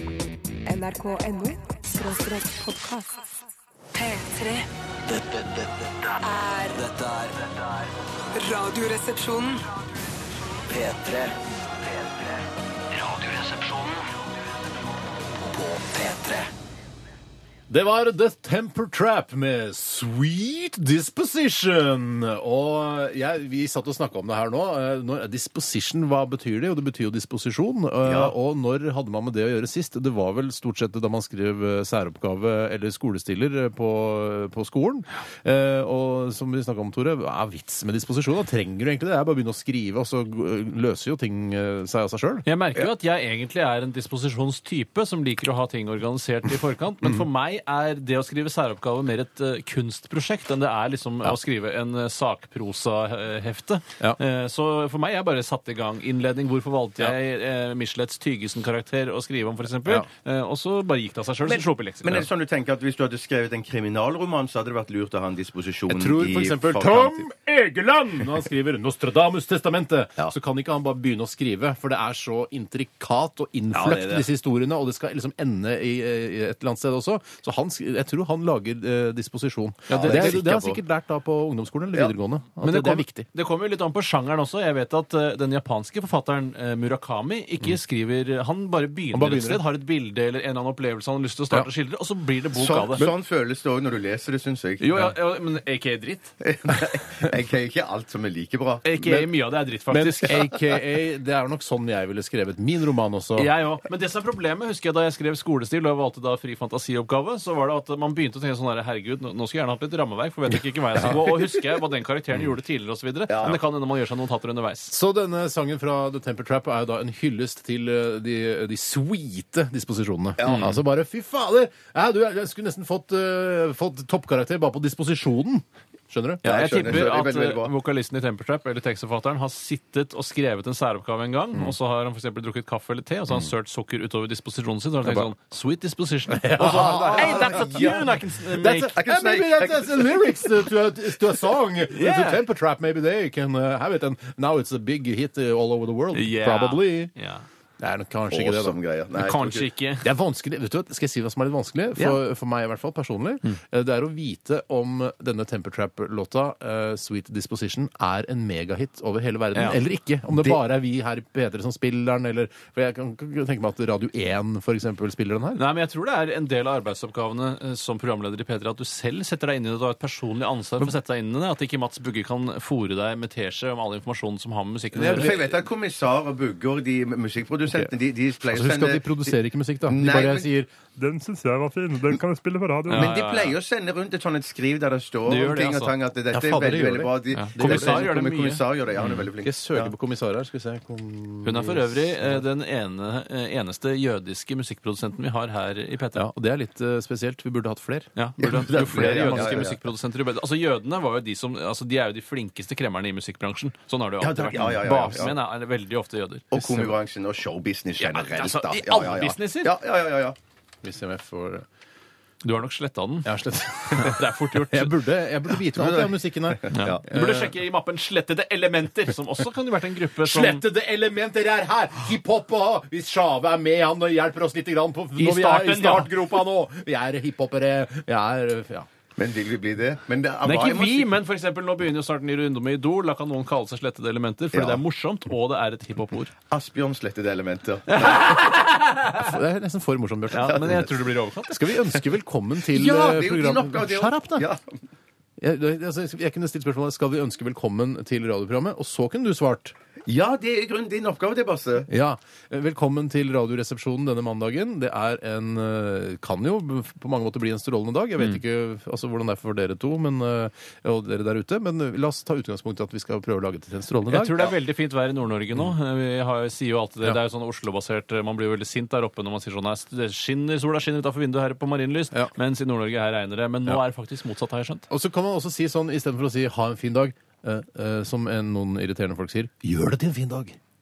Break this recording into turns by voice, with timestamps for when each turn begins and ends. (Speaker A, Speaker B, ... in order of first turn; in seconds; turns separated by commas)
Speaker A: 0.7-3.2, Speaker A: 3.9-4.7, Speaker B: 5.3-5.7, Speaker A: 6.2-7.0, Speaker B: 7.0-7.3, Speaker A: 8.3-9.6, Speaker B: 10.7-11.4, Speaker B: 13.0-14.0, Speaker B: 15.5-16.5, Speaker C: 17.7-42.4, Speaker D: 28.0-28.3, Speaker E: 42.4-62.2, Speaker D: 61.5-67.3, Speaker C: 65.9-83.3, Speaker D: 73.7-74.2, Speaker E: 79.9-80.8, Speaker D: 79.9-80.7, Speaker E: 82.6-93.1, Speaker C: 89.1-89.6, Speaker D: 92.5-94.9, Speaker E: 94.8-96.3, Speaker D: 96.4-98.8, Speaker E: 98.8-100.4, Speaker C: 99.0-99.3, Speaker C: 99.9-103.5, Speaker E: 103.3-114.9, Speaker C: 111.0-111.2, Speaker D: 113.3-113.6, Speaker C: 114.9-127.0, Speaker D: 120.4-120.7, Speaker E: 120.4-120.8, Speaker E: 126.4-138.9, Speaker D: 126.4-127.7, Speaker C: 135.0-135.3, Speaker C: 136.3-137.9, Speaker D: 136.8-138.2, Speaker C: 138.5-147.1, Speaker D: 138.9-140.7, Speaker E: 141.9-142.4, Speaker E: 146.1-147.4, Speaker C: 147.8-148.8, Speaker D: 148.3-149.6, Speaker E: 149.2-150.1, Speaker C: 150.0-165.6, Speaker E: 159.5-159.8, Speaker E: 165.5-175.5, Speaker C: 174.9-175.5, Speaker D: 174.9-180.5, Speaker C: 178.4-180.7, Speaker F: 181.0-183.1, Speaker E: 182.9-183.5, Speaker D: 182.9-189.9, Speaker E: 185.2-185.9, Speaker C: 186.3-188.1, Speaker E: 187.3-189.3, Speaker C: 189.4-192.4, Speaker E: 191.4-196.2, Speaker C: 196.1-198.1, Speaker E: 198.2-206.6, Speaker D: 198.4-199.8, Speaker C: 198.9-199.6, Speaker D: 204.2-205.3, Speaker D: 206.5-210.4, Speaker C: 206.6-206.9, Speaker E: 208.0-209.7, Speaker C: 210.8-211.7, Speaker E: 212.4-214.9, Speaker C: 213.2-217.5, Speaker D: 215.7-217.0, Speaker E: 216.7-220.6, Speaker C: 220.2-228.9, Speaker E: 225.2-226.3, Speaker D: 229.2-231.2, Speaker E: 230.4-236.3, Speaker D: 234.5-234.8, Speaker D: 236.5-238.4, Speaker E: 237.9-239.3, Speaker C: 239.2-240.9, Speaker E: 240.3-241.7, Speaker D: 240.5-240.8, Speaker C: 241.5-244.5, Speaker D: 242.7-244.7, Speaker C: 245.4-249.7, Speaker D: 250.1-251.9, Speaker C: 251.9-264.4, Speaker E: 264.1-274.9, Speaker C: 274.9-280.6